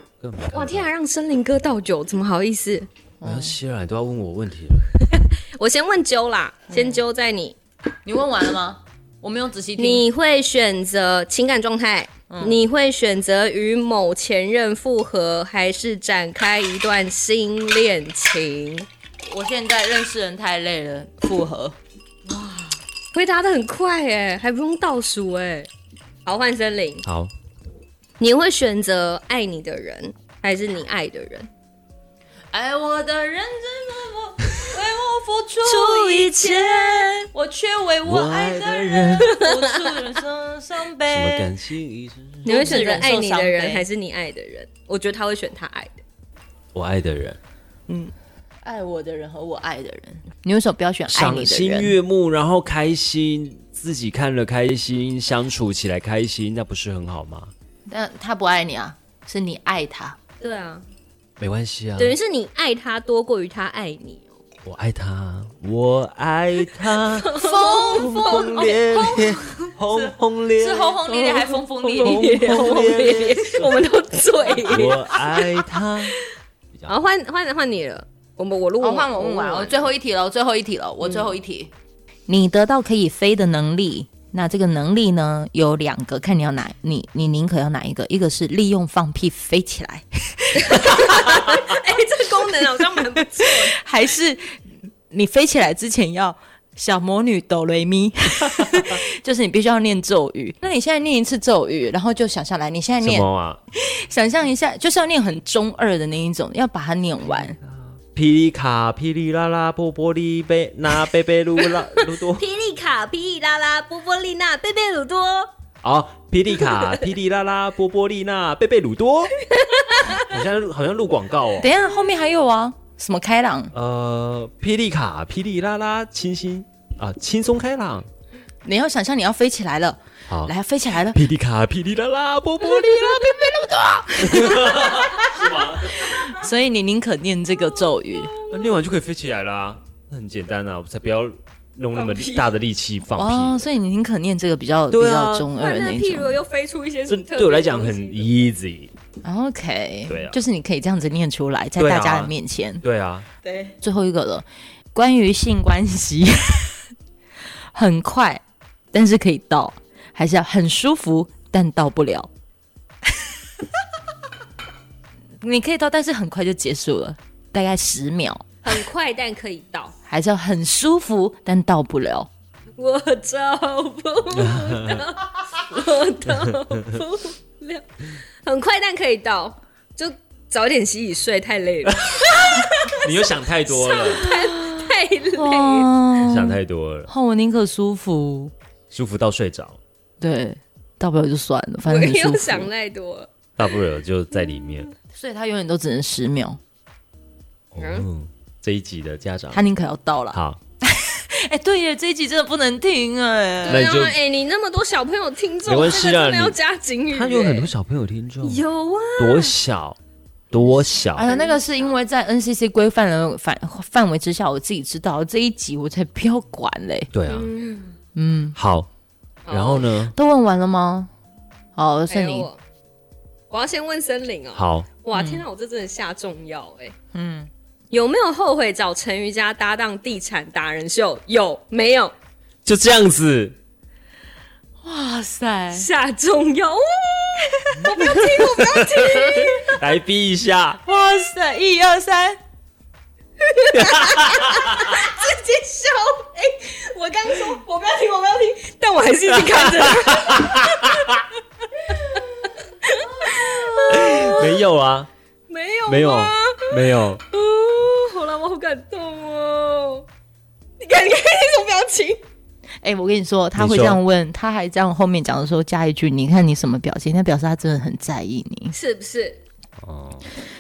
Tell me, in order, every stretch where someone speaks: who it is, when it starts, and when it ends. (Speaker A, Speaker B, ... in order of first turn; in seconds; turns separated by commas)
Speaker A: 0.2-0.9, Speaker B: 0.5-2.9, Speaker C: 3.2-3.6, Speaker A: 3.2-5.0, Speaker B: 5.1-7.6, Speaker C: 6.7-7.0, Speaker C: 8.1-10.1, Speaker B: 9.8-18.9, Speaker C: 12.3-12.6, Speaker C: 19.2-21.8, Speaker B: 22.3-25.7, Speaker B: 26.3-27.1, Speaker A: 27.1-27.3, Speaker B: 28.2-31.5, Speaker C: 32.5-41.5, Speaker B: 35.6-37.3, Speaker A: 38.0-39.4, Speaker B: 39.2-39.9, Speaker A: 41.1-43.0, Speaker B: 42.4-46.0, Speaker C: 42.5-43.9, Speaker A: 46.7-47.4, Speaker C: 48.6-52.0, Speaker A: 51.1-57.5, Speaker C: 57.9-60.2, Speaker B: 60.4-60.9, Speaker A: 61.4-62.2, Speaker B: 62.0-64.4, Speaker A: 64.6-71.0, Speaker B: 67.2-69.7, Speaker C: 67.3-68.4, Speaker C: 70.6-72.5, Speaker B: 71.1-76.2, Speaker A: 72.0-73.8, Speaker A: 74.6-76.2, Speaker B: 76.9-79.9, Speaker C: 78.8-81.7, Speaker B: 81.0-81.3, Speaker C: 82.3-91.6, Speaker B: 90.6-93.8, Speaker C: 92.5-94.6, Speaker C: 95.1-107.6, Speaker A: 103.0-103.6, Speaker A: 107.3-112.4, Speaker B: 111.6-115.5, Speaker A: 115.8-119.4, Speaker B: 119.5-120.3, Speaker A: 120.1-121.7, Speaker C: 121.6-123.7, Speaker A: 123.7-128.1, Speaker C: 128.6-131.2, Speaker A: 130.3-130.5, Speaker A: 131.1-133.4, Speaker C: 132.6-138.3, Speaker A: 134.1-136.3, Speaker A: 138.5-143.6, Speaker B: 141.9-142.5, Speaker C: 143.1-146.4, Speaker A: 144.9-145.5, Speaker B: 145.5-148.3, Speaker A: 147.1-148.9, Speaker C: 149.2-152.8, Speaker A: 150.1-150.4, Speaker A: 151.8-153.3, Speaker B: 153.5-153.7, Speaker C: 153.7-156.8, Speaker C: 157.7-162.3, Speaker C: 165.4-168.7, Speaker B: 168.6-169.9, Speaker C: 170.1-172.3, Speaker B: 172.8-185.9, Speaker A: 174.3-175.1, Speaker A: 176.3-177.0, Speaker A: 182.9-184.3, Speaker C: 184.2-188.5, Speaker A: 186.2-187.1, Speaker A: 188.9-189.8, Speaker C: 190.2-192.7, Speaker B: 191.9-193.3, Speaker A: 193.6-194.9, Speaker C: 195.1-196.6, Speaker A: 197.7-199.6, Speaker B: 197.8-198.1, Speaker C: 199.5-203.9, Speaker A: 200.3-200.6, Speaker B: 203.6-207.7, Speaker A: 203.7-204.2, Speaker A: 205.7-206.6, Speaker A: 207.1-208.6, Speaker B: 208.4-209.6, Speaker A: 209.2-210.0, Speaker A: 210.5-211.3, Speaker C: 211.1-217.1, Speaker B: 211.2-211.9, Speaker A: 217.1-217.5, Speaker B: 217.3-218.0, Speaker C: 218.1-218.6, Speaker A: 218.6-218.9, Speaker B: 219.5-219.9, Speaker A: 219.5-220.1, Speaker C: 220.1-221.1, Speaker C: 221.8-222.5, Speaker B: 222.1-222.6, Speaker B: 223.5-226.9, Speaker A: 224.6-224.9, Speaker C: 225.1-225.4, Speaker C: 227.1-227.5, Speaker B: 227.9-232.1, Speaker A: 232.6-233.6, Speaker C: 234.8-235.9, Speaker B: 235.7-239.8, Speaker A: 238.0-240.8, Speaker C: 240.8-242.4, Speaker B: 243.4-251.2, Speaker A: 243.7-244.9, Speaker A: 249.4-251.2, Speaker B: 251.8-254.6, Speaker A: 253.9-255.1, Speaker B: 255.5-260.1, Speaker A: 255.9-257.2, Speaker B: 260.8-262.2, Speaker C: 262.8-268.7, Speaker A: 263.6-264.0, Speaker B: 268.7-269.4, Speaker A: 269.8-270.3